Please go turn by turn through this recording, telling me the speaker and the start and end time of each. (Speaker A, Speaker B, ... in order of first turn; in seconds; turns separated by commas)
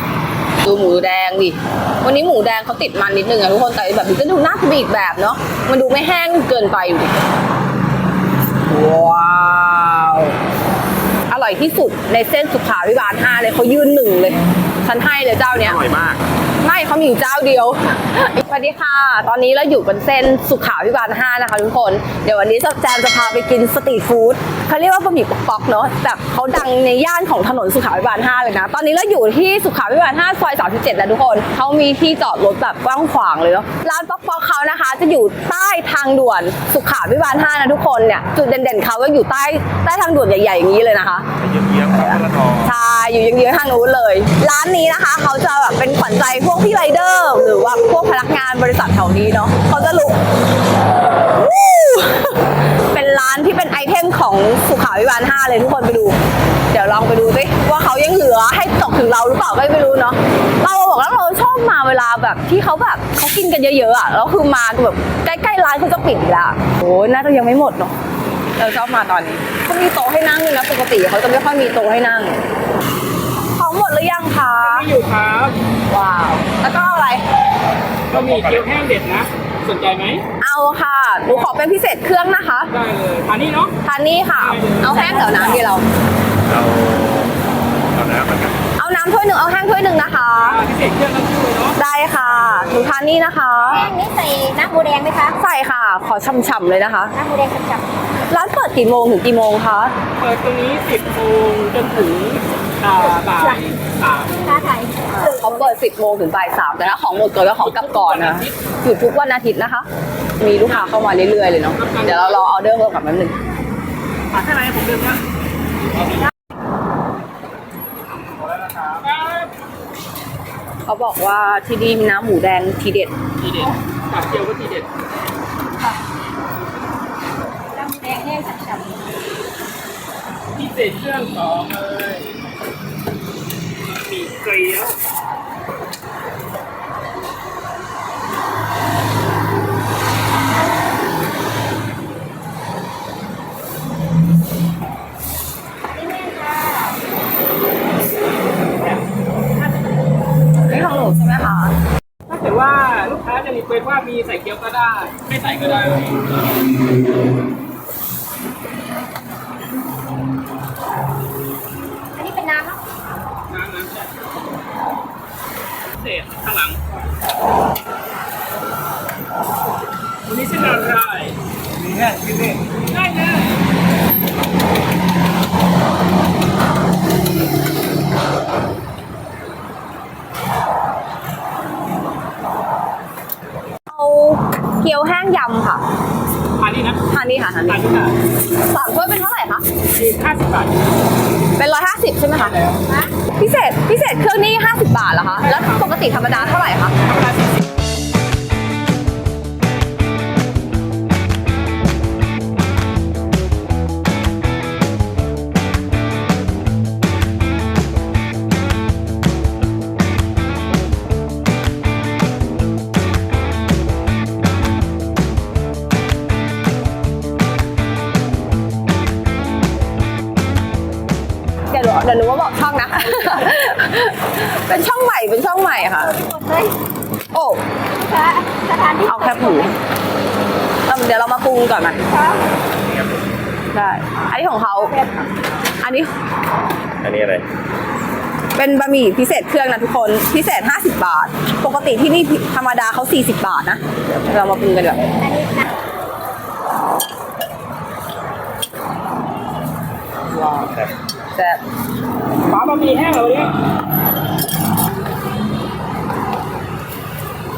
Speaker A: 0.6-7.2, Speaker A: 8.6-10.3, Speaker A: 11.3-15.8, Speaker B: 15.5-16.2, Speaker A: 16.6-41.3, Speaker B: 41.4-42.7, Speaker A: 42.0-50.2, Speaker A: 51.3-56.2, Speaker A: 56.7-67.9, Speaker A: 68.5-72.4, Speaker A: 73.5-74.9, Speaker C: 74.6-75.5, Speaker A: 75.9-77.2, Speaker C: 78.1-80.2, Speaker B: 78.1-78.7, Speaker A: 80.4-82.7, Speaker C: 82.7-83.7, Speaker A: 83.8-85.8, Speaker C: 84.4-85.0, Speaker D: 84.9-85.6, Speaker B: 86.5-87.4, Speaker B: 87.9-88.6, Speaker A: 88.8-90.6, Speaker C: 90.4-92.9, Speaker A: 91.8-93.8, Speaker D: 93.7-95.4, Speaker A: 95.3-97.2, Speaker D: 97.1-97.9, Speaker A: 98.3-99.9, Speaker C: 100.2-104.6, Speaker D: 103.3-103.6, Speaker D: 104.3-105.7, Speaker A: 105.1-109.8, Speaker C: 107.2-108.5, Speaker A: 110.4-113.4, Speaker C: 110.6-111.0, Speaker C: 111.8-112.5, Speaker C: 114.3-115.2, Speaker C: 118.4-119.5, Speaker A: 120.8-123.1, Speaker C: 123.4-124.9, Speaker D: 127.7-129.1, Speaker C: 130.5-132.4, Speaker C: 133.8-135.0, Speaker D: 145.9-147.0, Speaker C: 148.8-149.0, Speaker A: 150.7-151.8, Speaker C: 152.3-156.3, Speaker D: 162.1-162.8, Speaker C: 163.5-164.1, Speaker C: 166.0-167.0, Speaker C: 170.2-171.4, Speaker C: 172.7-173.6, Speaker A: 183.9-185.8, Speaker C: 186.6-187.0, Speaker A: 187.1-187.8, Speaker C: 187.7-188.1, Speaker A: 188.5-189.7, Speaker C: 189.9-190.8, Speaker A: 191.6-192.6, Speaker C: 192.3-192.8, Speaker D: 192.8-193.1, Speaker A: 193.3-196.9, Speaker C: 195.4-196.3, Speaker C: 197.0-197.5, Speaker A: 221.7-226.2, Speaker D: 225.9-226.7, Speaker A: 227.3-227.6, Speaker D: 228.0-229.7, Speaker A: 229.0-229.7, Speaker A: 230.9-232.0, Speaker D: 232.1-232.4, Speaker B: 232.6-233.2, Speaker A: 233.7-235.0, Speaker A: 235.8-236.1, Speaker B: 237.0-237.4, Speaker A: 238.5-245.2, Speaker D: 245.2-245.6, Speaker A: 251.3-251.6, Speaker C: 252.5-253.5